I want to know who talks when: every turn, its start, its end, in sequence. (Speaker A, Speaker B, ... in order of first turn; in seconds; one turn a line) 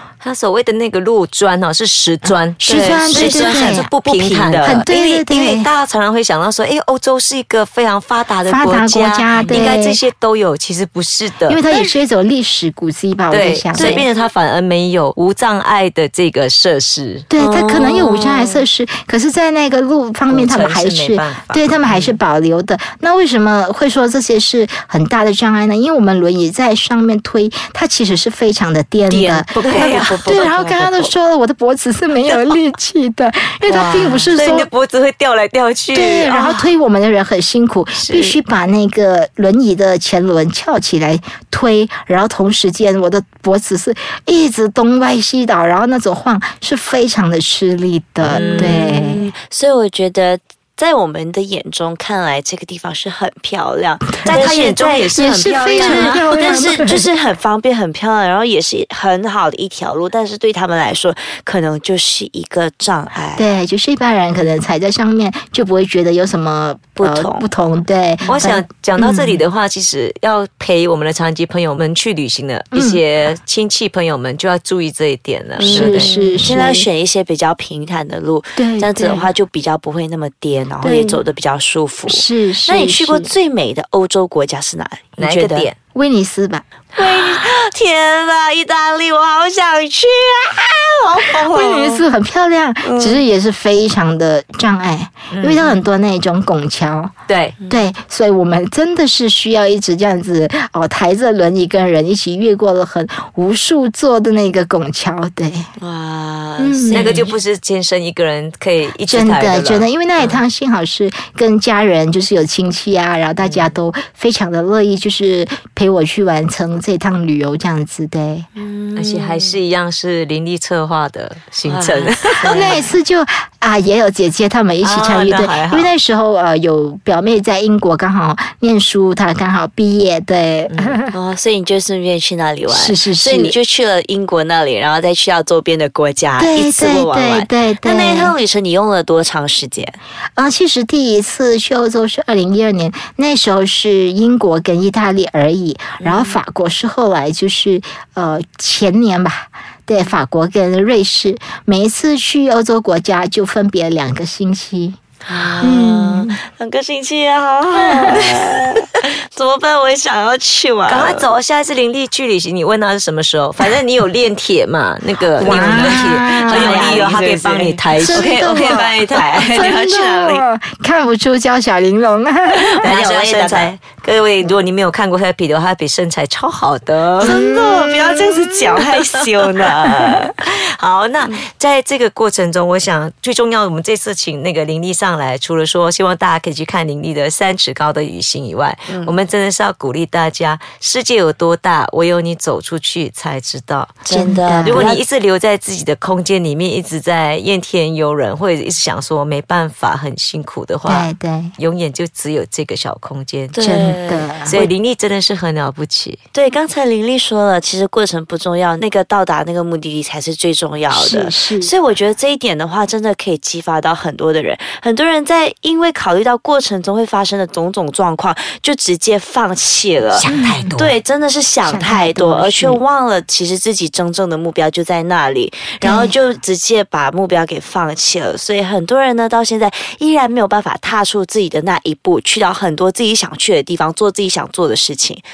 Speaker A: 0.2-11.6
Speaker B: 2.6-4.8
Speaker C: 2.6-4.0
Speaker C: 4.6-5.7
Speaker C: 8.4-10.0
Speaker B: 9.4-9.7
Speaker C: 11.5-14.0
Speaker A: 13.3-17.2
Speaker B: 13.7-14.1
Speaker C: 17.3-34.7
Speaker B: 17.4-18.6
Speaker A: 20.3-22.2
Speaker A: 29.1-30.5
Speaker B: 29.1-31.1
Speaker A: 32.3-32.6
Speaker A: 33.7-36.7
Speaker C: 35.9-49.3
Speaker A: 38.0-38.4
Speaker A: 48.2-48.8
Speaker B: 48.3-63.5
Speaker A: 54.2-56.7
Speaker C: 55.1-57.1
Speaker C: 63.4-69.4
Speaker B: 67.0-67.5
Speaker A: 68.3-76.5
Speaker C: 72.7-73.0
Speaker B: 75.6-85.7
Speaker C: 75.6-76.9
Speaker C: 78.6-79.3
Speaker C: 80.8-81.2
Speaker C: 82.1-83.3
Speaker A: 85.2-85.8
Speaker C: 85.9-86.6
Speaker B: 86.9-92.0
Speaker C: 91.5-97.1
Speaker B: 92.8-93.2
Speaker A: 95.3-95.7
Speaker A: 97.3-97.5
Speaker B: 97.6-97.9
Speaker C: 97.7-105.7
Speaker B: 105.8-107.3
Speaker C: 106.6-107.3
Speaker A: 106.9-110.4
Speaker C: 109.0-118.5
Speaker B: 118.5-119.6
Speaker A: 118.9-122.8
Speaker B: 121.6-122.9
Speaker C: 122.5-131.1
Speaker A: 124.8-125.9
Speaker A: 130.7-131.0
Speaker B: 131.1-140.0
Speaker C: 132.7-133.6
Speaker C: 136.4-138.3
Speaker C: 140.4-155.0
Speaker B: 146.0-146.4
Speaker B: 155.2-161.3
Speaker C: 155.6-156.4
Speaker C: 157.8-158.2
Speaker A: 160.8-169.8
Speaker C: 165.4-167.1
Speaker B: 165.4-170.4
Speaker C: 168.0-172.9
Speaker A: 172.7-177.3
Speaker B: 172.8-173.7
Speaker B: 177.2-180.3
Speaker C: 177.2-177.9
Speaker A: 177.9-178.8
Speaker A: 180.2-194.0
Speaker B: 188.9-189.1
Speaker B: 194.0-195.0
Speaker C: 194.1-194.9
Speaker A: 194.6-203.6
Speaker C: 200.8-201.6
Speaker B: 203.5-204.7
Speaker C: 203.6-204.6
Speaker A: 204.4-206.2
Speaker B: 206.3-235.2
Speaker C: 210.9-211.7
Speaker A: 220.1-220.9
Speaker C: 220.2-220.7
Speaker C: 221.6-222.8
Speaker C: 225.8-226.1